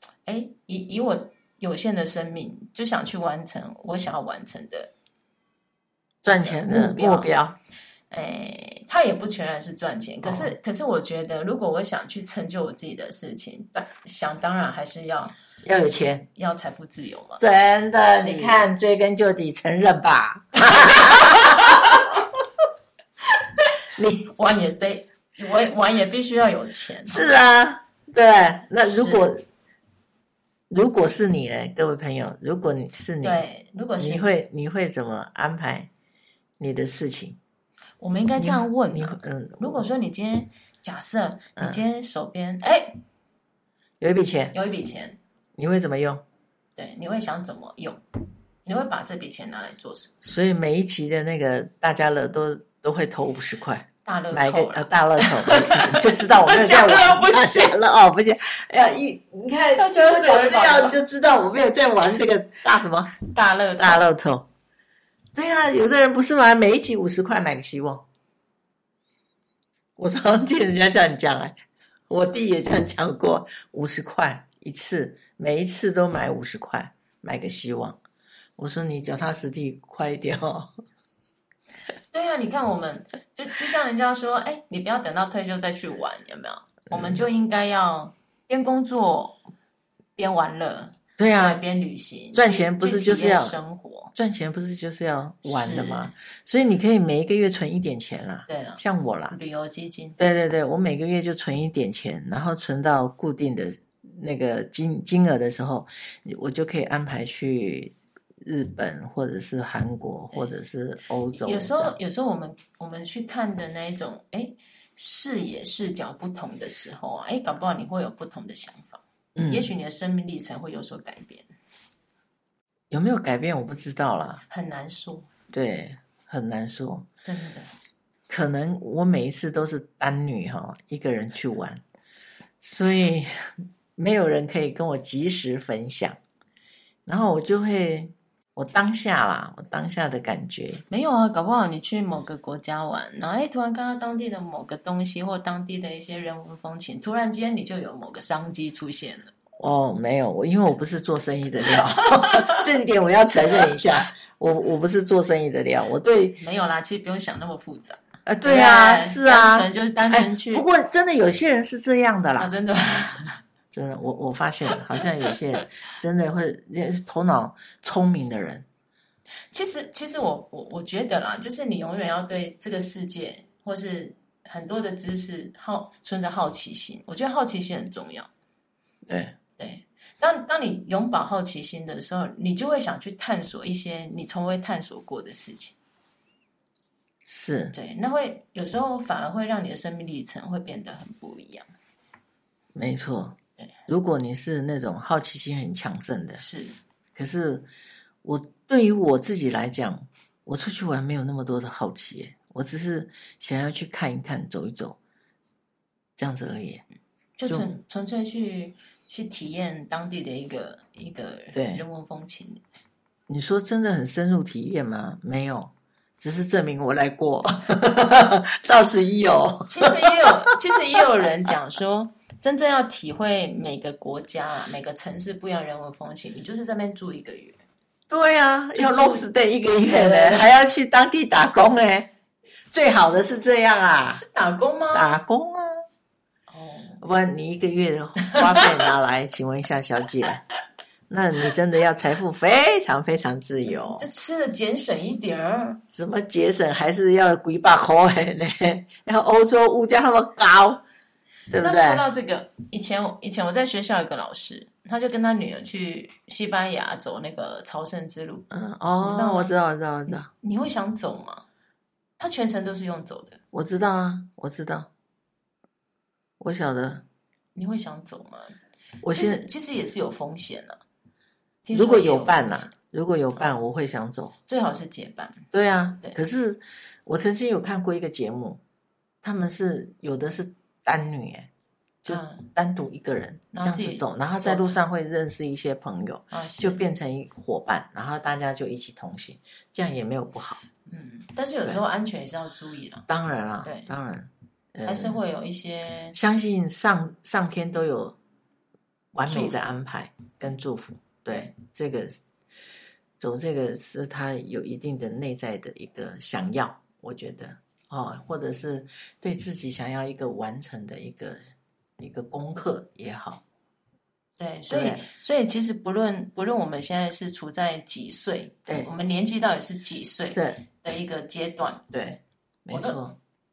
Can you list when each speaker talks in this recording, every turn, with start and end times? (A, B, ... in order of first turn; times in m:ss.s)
0:00.3-0:04.9 A
0:06.2-0:07.6 B
0:06.3-0:07.3 A
0:08.1-0:15.3 A
0:10.2-0:10.6 B
0:15.6-0:16.3 B
0:16.4-0:17.4 A
0:17.4-0:22.2 B
0:18.1-0:18.7 A
0:20.6-0:22.0 A
0:24.0-0:24.3 B
0:24.3-0:27.3 A
0:27.1-0:29.4 B
0:28.8-0:29.3 A
0:30.7-0:33.4 B
0:33.2-0:34.3 A
0:34.0-0:35.9 B
0:36.6-0:37.4 B
0:38.0-0:43.0 A
0:38.4-0:39.8 B
0:41.6-0:41.8 B
0:44.0-0:44.6 B
0:44.5-0:45.2 A
0:45.6-0:46.2 B
0:46.8-0:48.0 A
0:48.6-0:50.1 A
0:50.2-1:03.2 B
0:54.0-0:57.8 A
0:59.8-1:01.0 A
1:03.3-1:04.0 A
1:03.8-1:04.5 B
1:05.4-1:08.0 B
1:10.0-1:11.6 B
1:12.1-1:18.0 B
1:18.6-1:20.7 B
1:22.1-1:29.4 A
1:26.9-1:27.2 B
1:30.2-1:34.1 A
1:31.2-1:31.6 B
1:32.3-1:33.6 B
1:34.2-1:39.4 B
1:35.4-1:36.1 A
1:38.5-1:40.2 A
1:40.2-1:52.0 B
1:51.3-2:01.5 A
1:59.4-1:59.7 B
2:02.9-2:04.4 B
2:04.5-2:05.3 A
2:05.5-2:07.1 B
2:07.2-2:07.7 A
2:08.3-2:11.8 B
2:12.6-2:16.2 B
2:17.1-2:20.8 B
2:20.9-2:29.3 A
2:29.6-2:36.4 B
2:32.2-2:32.6 A
2:36.4-2:40.6 A
2:38.3-2:43.2 B
2:42.4-2:43.4 A
2:43.7-2:48.7 B
2:49.5-2:58.3 A
2:59.1-2:59.4 B
2:59.6-3:05.8 A
3:07.2-3:07.8 B
3:07.7-3:11.7 A
3:12.8-3:16.4 B
3:16.4-3:16.8 A
3:17.2-3:17.7 B
3:18.2-3:25.0 B
3:26.2-3:26.8 B
3:27.4-3:32.6 A
3:27.5-3:27.7 B
3:31.5-3:31.8 B
3:33.3-3:40.5 B
3:39.7-3:47.6 A
3:48.1-3:52.1 B
3:48.8-3:49.3 A
3:49.9-3:50.5 A
3:52.7-3:54.2 B
3:54.1-3:55.2 A
3:54.9-3:55.8 B
3:56.5-3:57.0 A
3:57.0-4:00.4 B
3:58.3-3:58.7 A
4:01.1-4:04.1 B
4:03.7-4:05.8 A
4:05.9-4:10.8 B
4:11.5-4:12.0 B
4:11.6-4:18.5 A
4:18.5-4:20.3 B
4:19.0-4:19.5 A
4:20.1-4:21.5 A
4:22.2-4:23.4 A
4:23.5-4:24.9 B
4:26.4-4:27.0 B
4:27.6-4:28.6 A
4:29.0-4:29.5 B
4:29.1-4:30.8 A
4:31.6-4:32.7 A
4:31.7-4:34.3 B
4:34.5-4:35.4 A
4:35.5-4:38.6 B
4:39.2-4:41.5 B
4:42.0-4:50.6 B
4:42.1-4:42.5 A
4:43.5-4:44.8 A
4:46.3-4:46.8 A
4:50.9-4:53.1 A
4:53.1-4:55.2 B
4:53.6-4:53.9 A
4:54.8-4:56.2 A
4:56.1-4:58.2 B
4:59.1-5:02.2 B
4:59.3-4:59.7 A
5:03.2-5:11.4 B
5:12.0-5:13.4 B
5:14.4-5:21.9 A
5:14.7-5:15.1 B
5:20.2-5:20.6 B
5:21.9-5:23.2 B
5:22.7-5:23.0 A